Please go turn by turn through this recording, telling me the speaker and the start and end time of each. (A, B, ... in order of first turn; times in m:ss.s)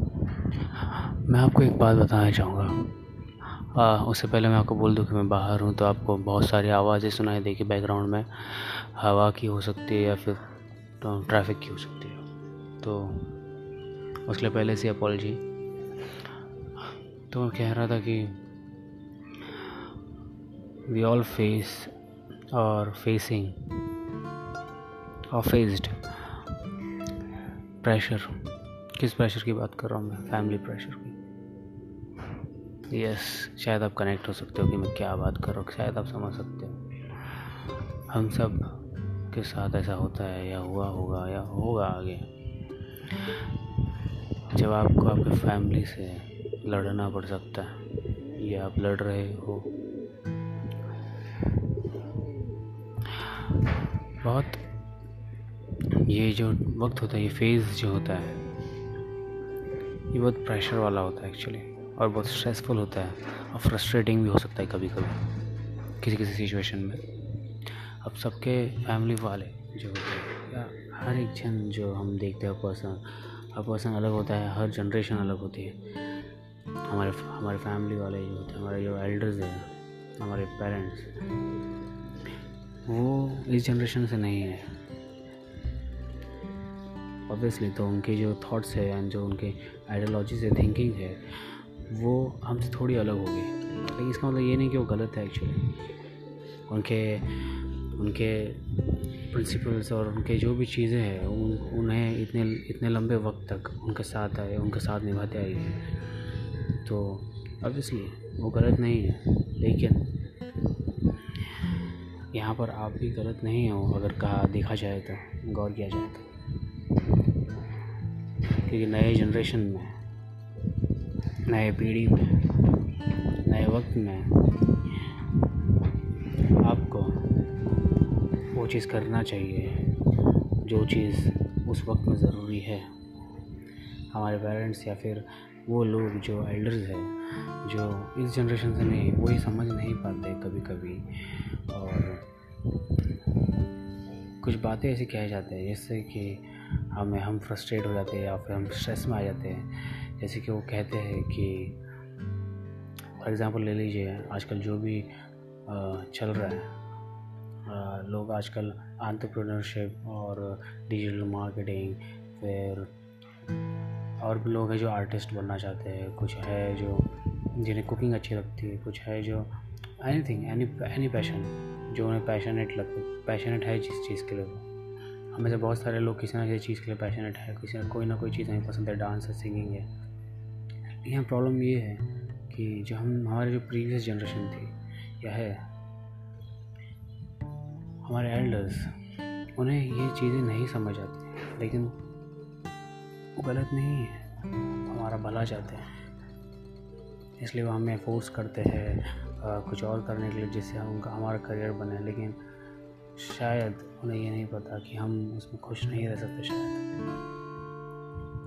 0:00.6-0:02.9 A
0:03.4-0:10.4 A
0:11.0-0:12.2 A
0:12.8-0:13.4 A
0:14.2-0:15.4 A
0:17.3-0:18.4 A
0:19.5-0:19.7 A
0:20.8-0:21.9 A
0:22.5-0:23.7 A
0:25.3-0:26.4 A
0:27.8-0:28.4 A
0:28.9-0:31.2 A
0:32.9-0:42.3 A
0:44.5-0:49.8 A
0:53.1-0:53.6 A
0:54.2-0:54.6 A
0:55.9-0:58.5 A
1:00.1-1:05.3 A
1:06.0-1:07.1 A
1:07.8-1:15.8 A
1:16.8-1:21.1 A
1:22.8-1:24.8 A
1:27.3-1:35.8 A
1:36.7-1:45.9 A
1:46.8-1:50.2 A
1:51.4-1:51.7 A
1:52.3-1:56.3 A
1:58.5-2:00.0 A
2:01.4-2:02.6 A
2:03.4-2:05.2 A
2:06.3-2:07.4 A
2:08.5-2:12.9 A
2:14.1-2:22.2 A
2:24.4-2:31.8 A
2:33.2-2:35.1 A
2:35.6-2:36.7 A
2:37.6-2:42.9 A
2:44.2-2:54.6 A
2:55.3-2:59.9 A
3:01.0-3:05.7 A
3:08.0-3:12.0 A
3:13.4-3:14.2 A
3:14.8-3:15.9 A
3:17.4-3:22.4 A
3:23.2-3:26.8 A